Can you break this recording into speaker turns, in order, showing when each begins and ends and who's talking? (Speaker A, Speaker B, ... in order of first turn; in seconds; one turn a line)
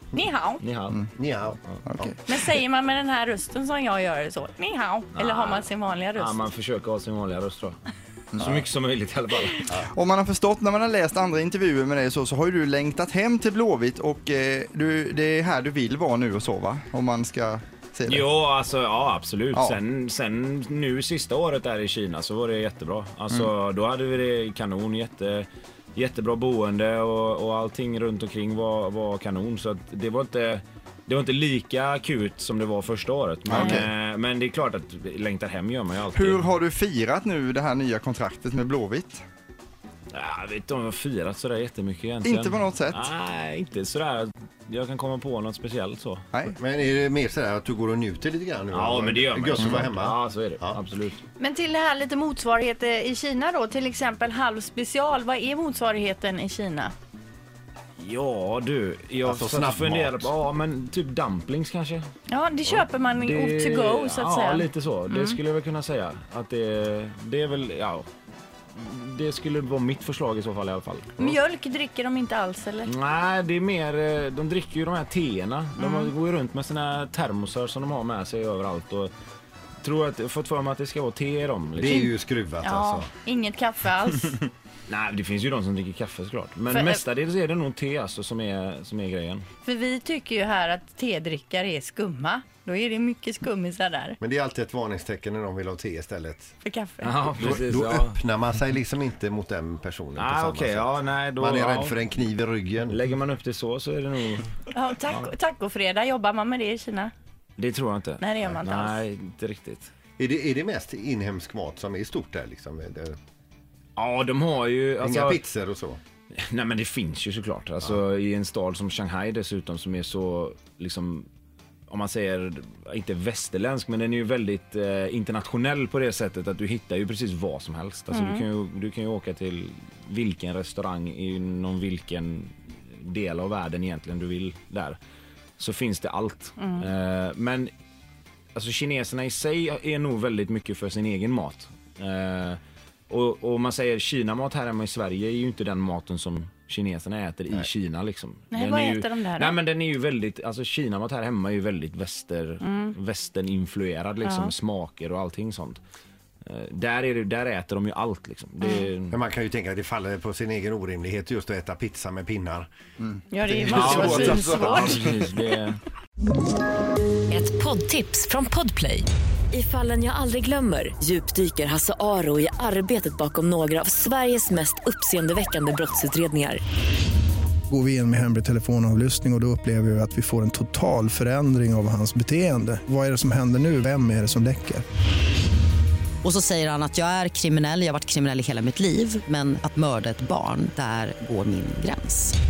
Speaker A: 0.2-0.6
Speaker B: 0.6-1.1
Speaker C: 1.2-2.2
Speaker D: 1.9-2.4
Speaker A: 2.3-6.3
Speaker B: 5.1-7.8
Speaker B: 8.3-9.8
Speaker C: 8.4-8.7
Speaker D: 9.8-18.3
Speaker B: 18.1-36.5
Speaker D: 19.5-19.8
Speaker D: 33.5-33.9
Speaker D: 36.1-39.2
Speaker B: 40.1-46.2
Speaker D: 42.2-43.1
Speaker C: 46.6-50.8
Speaker B: 48.7-51.2
Speaker A: 51.4-56.9
Speaker B: 58.0-62.0
Speaker C: 59.2-60.3
Speaker A: 62.3-65.4
Speaker B: 62.7-68.1
Speaker E: 63.6-64.1
Speaker B: 68.7-71.4
Speaker A: 71.3-72.9
Speaker B: 72.9-79.1
Speaker A: 75.8-76.1
Speaker B: 79.8-82.1
Speaker C: 81.8-83.1
Speaker E: 82.7-83.0
Speaker A: 83.2-84.2
Speaker B: 84.9-89.5
Speaker A: 89.7-94.1
Speaker C: 94.2-96.5
Speaker A: 96.7-97.0
Speaker B: 97.0-98.2
Speaker C: 97.4-103.0
Speaker B: 100.2-102.0
Speaker B: 102.9-105.3
Speaker A: 104.7-107.1
Speaker B: 107.6-109.9
Speaker A: 108.2-108.6
Speaker C: 110.2-113.2
Speaker B: 114.0-115.4
Speaker C: 115.0-116.0
Speaker B: 116.3-121.3
Speaker B: 121.9-135.0
Speaker A: 128.1-128.4
Speaker B: 135.6-137.7
Speaker A: 136.6-136.8
Speaker B: 138.5-155.8
Speaker A: 148.5-149.6
Speaker A: 152.6-152.9
Speaker A: 154.2-154.5
Speaker B: 156.4-159.2
Speaker A: 158.6-158.9
Speaker C: 159.1-162.7
Speaker D: 163.0-165.2
Speaker A: 163.3-164.9
Speaker B: 163.7-165.8
Speaker E: 163.8-164.9
Speaker F: 167.3-176.6
Speaker E: 177.7-184.8
Speaker G: 186.2-192.3